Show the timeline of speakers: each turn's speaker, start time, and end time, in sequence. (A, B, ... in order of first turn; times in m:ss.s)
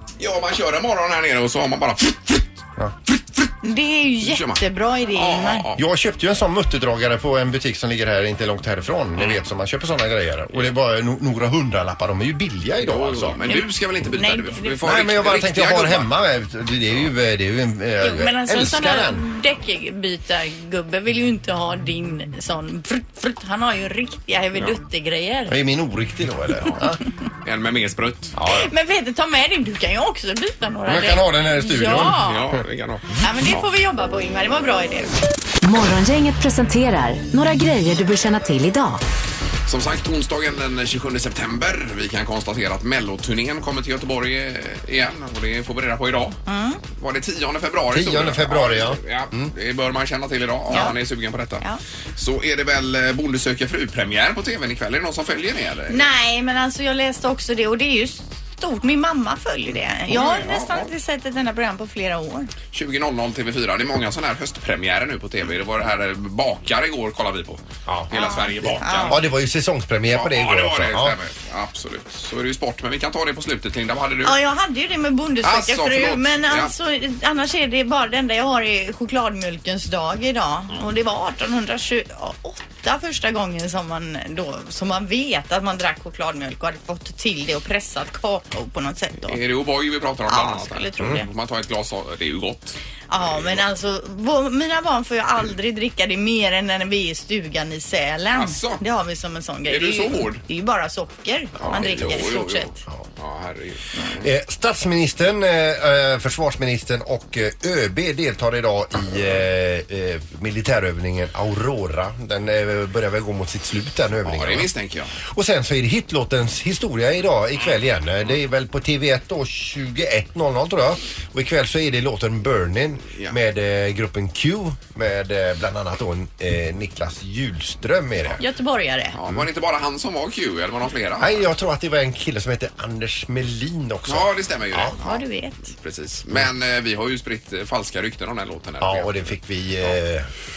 0:00.2-0:03.5 A
0:03.6-0:05.7 B
0:04.2-0:04.6 A
0:05.1-0:05.8 A
0:05.8-0:13.4 C
0:12.8-0:16.1 A
0:13.5-0:14.8 B
0:14.8-0:19.2 C
0:18.0-0:25.6 B
0:25.5-0:27.0 C
0:27.4-0:28.3 A
0:28.4-0:28.7 C
0:28.5-0:32.4 B
0:30.8-0:32.2 C
0:32.0-0:33.6 A
0:33.2-0:35.1 B
0:35.6-0:39.0 D
0:39.7-0:46.4 A
0:46.5-0:46.8 B
0:46.9-0:51.6 A
0:47.9-0:49.5 C
0:50.7-0:50.9 B
0:52.2-0:56.0 A
0:55.9-1:02.5 B
1:00.1-1:00.9 A
1:02.7-1:09.2 A
1:07.8-1:11.2 C
1:08.1-1:09.2 B
1:10.1-1:14.4 A
1:14.2-1:29.4 B
1:15.4-1:16.7 A
1:29.3-1:32.8 A
1:30.3-1:31.3 B
1:33.1-1:42.7 B
1:33.3-1:33.6 A
1:38.3-1:38.8 A
1:39.7-1:40.4 A
1:41.6-1:44.2 A
1:44.2-2:08.4 C
1:54.2-1:55.1 A
2:08.4-2:09.2 B
2:09.1-2:11.5 A
2:11.2-2:14.9 C
2:14.1-2:19.9 A
2:15.0-2:15.7 B
2:18.8-2:20.3 C